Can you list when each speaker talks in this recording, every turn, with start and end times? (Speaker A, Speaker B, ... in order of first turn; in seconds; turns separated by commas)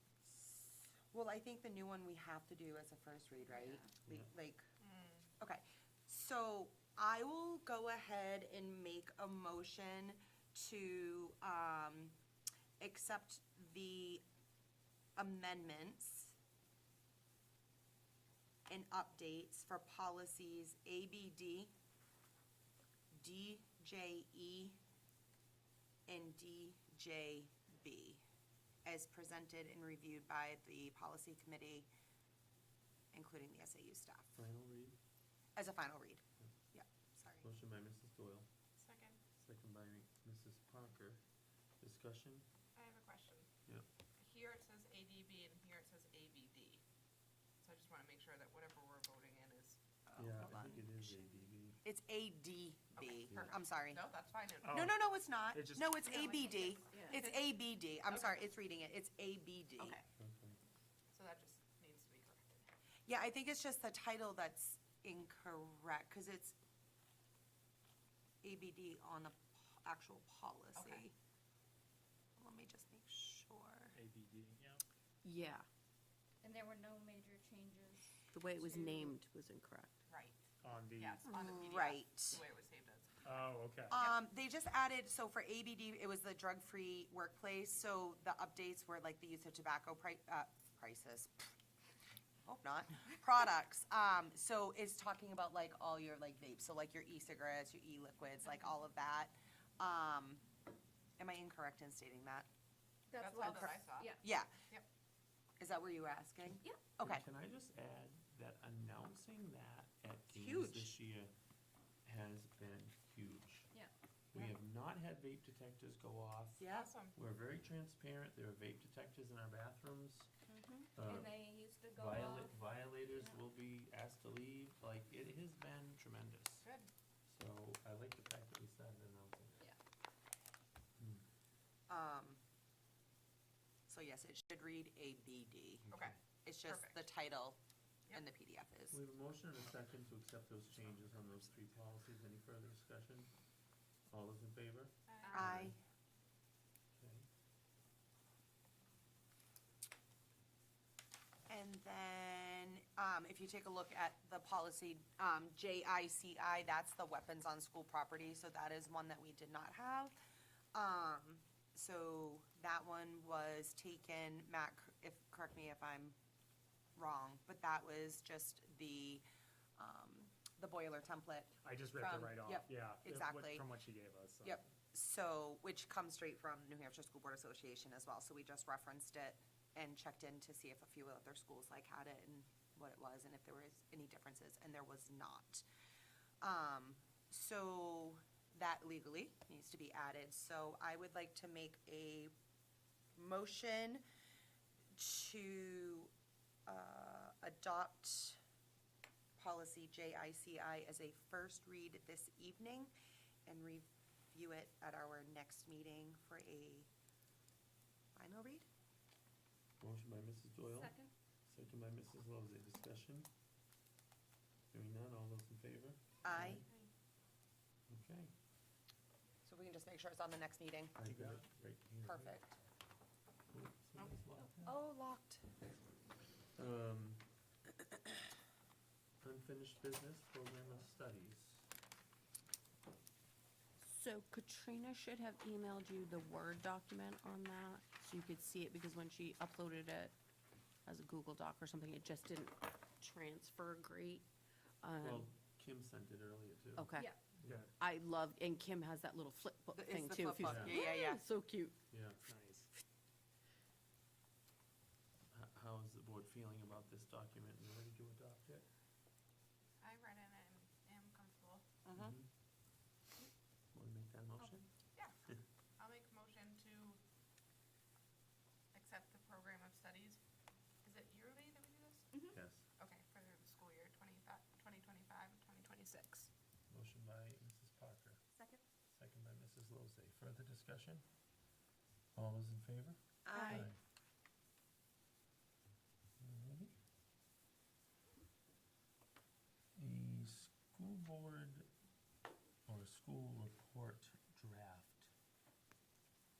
Speaker A: 1.1-4.6, Speaker B: 4.8-5.3, Speaker A: 5.4-12.1, Speaker A: 12.8-14.2, Speaker A: 15.2-16.3, Speaker A: 18.7-21.7, Speaker A: 23.1-24.8, Speaker A: 26.1-28.2, Speaker A: 28.8-31.9, Speaker A: 33.1-34.3, Speaker C: 34.3-35.0, Speaker A: 35.5-37.5, Speaker C: 37.4-38.5, Speaker B: 38.8-39.2, Speaker C: 39.4-41.2, Speaker C: 41.8-42.5, Speaker B: 42.8-43.5, Speaker B: 44.2-46.8, Speaker B: 47.6-49.8, Speaker A: 50.0-54.0, Speaker C: 50.2-51.8, Speaker B: 53.0-54.7, Speaker D: 54.6-55.0, Speaker A: 54.7-60.0, Speaker D: 55.5-56.2, Speaker B: 56.5-58.5, Speaker E: 56.9-57.2, Speaker C: 60.1-60.6, Speaker B: 61.1-62.6, Speaker A: 63.1-66.5, Speaker A: 68.4-71.1, Speaker B: 70.7-71.1, Speaker A: 72.4-74.0, Speaker D: 73.9-74.8, Speaker E: 75.2-75.7, Speaker F: 76.4-78.9, Speaker E: 78.3-80.0, Speaker B: 80.1-80.4, Speaker D: 80.6-81.3, Speaker B: 81.0-83.2, Speaker E: 81.3-81.7, Speaker A: 81.4-82.4, Speaker D: 83.2-84.0, Speaker A: 83.9-91.5, Speaker A: 92.4-100.4, Speaker A: 101.2-102.5, Speaker F: 103.1-104.2, Speaker B: 103.1-104.2, Speaker A: 103.3-104.5, Speaker A: 105.6-107.2, Speaker C: 107.0-111.3, Speaker A: 110.3-110.9, Speaker C: 112.0-113.7, Speaker C: 114.3-120.3, Speaker A: 116.6-116.9, Speaker B: 116.7-117.2, Speaker F: 120.5-122.5, Speaker C: 120.9-121.4, Speaker C: 121.9-126.6, Speaker B: 126.6-126.9, Speaker C: 127.3-129.7, Speaker C: 131.0-131.2, Speaker A: 131.9-132.4, Speaker A: 133.9-135.8, Speaker B: 135.9-137.1, Speaker A: 136.4-137.6, Speaker A: 138.1-139.0, Speaker C: 138.9-143.3, Speaker D: 140.9-141.3, Speaker C: 144.1-145.8, Speaker B: 145.1-145.4, Speaker A: 145.3-145.8, Speaker C: 146.9-147.2, Speaker A: 151.5-160.1, Speaker A: 160.7-166.1, Speaker A: 166.9-169.2, Speaker A: 169.8-173.6, Speaker D: 171.6-174.7, Speaker A: 174.4-185.6, Speaker A: 186.4-192.3, Speaker A: 193.2-194.0, Speaker A: 194.9-196.1, Speaker A: 196.7-198.4, Speaker A: 199.4-202.9, Speaker A: 203.4-206.9, Speaker A: 208.2-208.7, Speaker C: 209.8-213.3, Speaker F: 210.6-211.1, Speaker C: 214.7-216.7, Speaker A: 216.2-216.7, Speaker C: 217.9-218.3, Speaker A: 219.4-221.0, Speaker C: 221.0-222.4, Speaker A: 222.0-222.6, Speaker C: 223.5-224.8, Speaker A: 224.6-225.6, Speaker C: 226.5-227.2, Speaker C: 229.2-231.7, Speaker E: 233.8-240.1, Speaker E: 240.8-244.2, Speaker E: 244.8-245.3, Speaker C: 245.0-247.7, Speaker E: 246.8-247.1, Speaker D: 247.4-247.7, Speaker E: 247.8-251.8, Speaker A: 249.7-251.2, Speaker C: 250.4-250.8, Speaker C: 251.9-252.2, Speaker D: 252.2-252.7, Speaker C: 255.3-258.6, Speaker B: 259.8-261.6, Speaker A: 261.8-262.1, Speaker C: 261.9-262.3, Speaker C: 263.7-264.7, Speaker B: 265.8-267.0, Speaker B: 268.7-270.2, Speaker B: 270.8-276.3, Speaker C: 272.3-272.6, Speaker C: 276.7-278.2, Speaker C: 278.9-281.0, Speaker C: 282.1-283.8, Speaker A: 283.2-283.7, Speaker E: 283.3-283.7, Speaker C: 286.2-286.7, Speaker C: 289.8-291.7, Speaker C: 292.6-295.1